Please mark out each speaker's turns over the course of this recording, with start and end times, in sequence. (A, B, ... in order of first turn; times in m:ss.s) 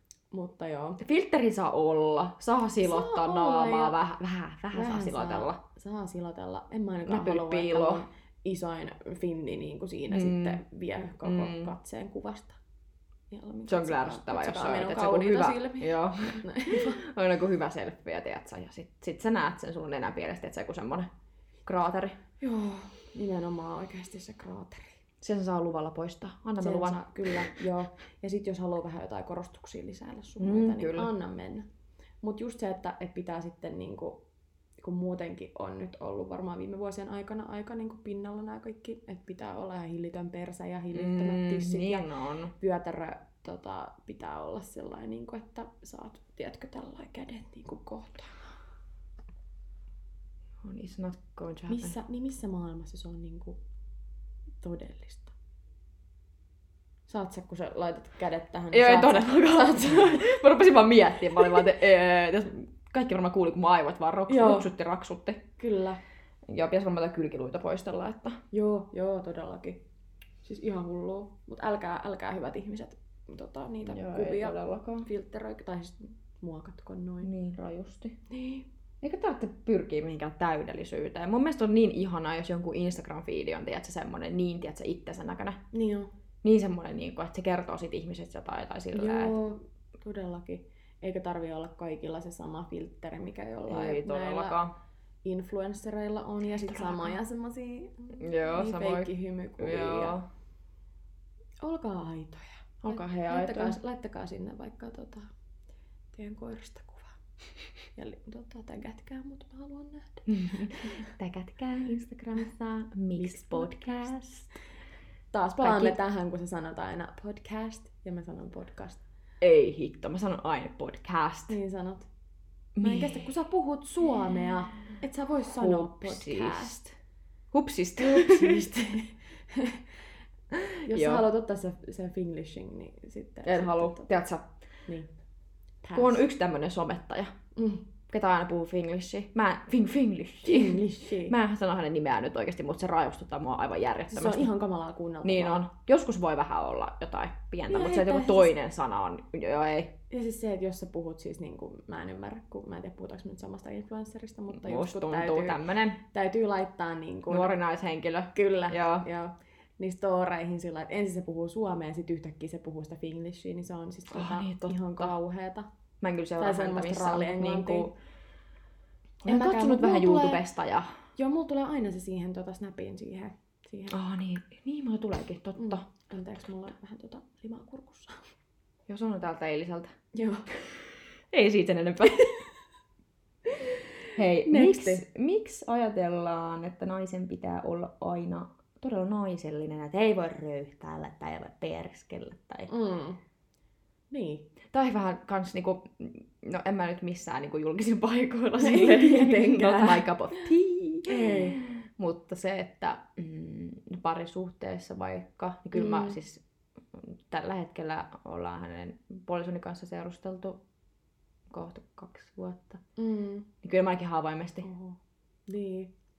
0:00.3-0:01.0 A
0:01.0-0:05.6 B
0:02.8-0:04.0 A
0:04.7-0:12.6 A
0:07.1-0:08.0 B
0:10.1-0:10.6 B
0:11.2-0:11.7 B
0:13.3-0:17.0 A
0:13.7-0:21.1 B
0:21.6-0:22.2 B
0:22.4-0:25.0 A
0:25.2-0:27.5 B
0:26.6-0:31.7 A
0:30.4-0:31.1 B
0:32.2-0:34.2 A
0:34.8-0:48.4 A
0:40.9-0:42.5 B
0:50.6-0:52.0 B
0:51.7-0:53.6 A
0:54.6-0:55.3 A
0:57.1-1:00.4 A
0:58.7-1:05.4 B
1:04.3-1:04.7 A
1:05.6-1:06.0 A
1:06.5-1:08.4 B
1:08.5-1:09.8 A
1:10.4-1:17.3 A
1:13.9-1:15.1 B
1:17.2-1:18.2 B
1:18.3-1:18.7 A
1:19.0-1:25.6 B
1:25.7-1:26.1 A
1:26.4-1:29.4 B
1:28.9-1:34.6 A
1:33.7-1:34.7 B
1:35.2-1:40.2 A
1:36.7-1:37.2 B
1:38.2-1:40.3 B
1:41.6-1:45.3 A
1:42.8-1:43.8 B
1:46.1-1:47.2 A
1:48.0-1:50.3 A
1:50.3-1:54.5 B
1:50.8-1:51.1 A
1:53.2-1:53.9 A
1:55.3-1:59.0 A
1:55.6-1:56.0 B
1:59.4-2:01.6 B
2:01.5-2:02.1 A
2:02.8-2:03.3 B
2:02.8-2:06.8 A
2:05.6-2:06.9 B
2:07.5-2:08.7 B
2:08.0-2:09.9 A
2:10.5-2:11.2 B
2:10.8-2:14.1 A
2:13.4-2:14.5 B
2:15.8-2:16.2 A
2:15.9-2:17.3 B
2:17.6-2:17.8 A
2:18.1-2:24.5 B
2:20.4-2:21.4 A
2:24.1-2:25.7 A
2:25.2-2:29.9 B
2:27.7-2:28.6 A
2:30.1-2:37.5 A
2:34.5-2:36.0 B
2:37.3-2:39.1 B
2:38.3-2:45.7 A
2:44.1-2:45.1 B
2:46.0-2:47.9 B
2:46.4-2:47.9 A
2:49.2-2:50.4 A
2:49.2-2:51.0 B
2:51.2-2:54.0 A
2:53.9-2:55.9 B
2:55.6-2:58.3 A
2:58.9-2:59.9 B
3:00.1-3:00.5 A
3:00.6-3:02.4 B
3:03.6-3:05.0 A
3:04.1-3:12.7 B
3:12.7-3:13.2 A
3:14.1-3:14.5 A
3:14.7-3:30.6 B
3:18.6-3:20.5 A
3:21.1-3:21.6 A
3:25.7-3:26.2 A
3:31.5-3:32.8 B
3:33.0-3:33.5 A
3:33.6-3:34.7 B
3:34.6-3:35.9 A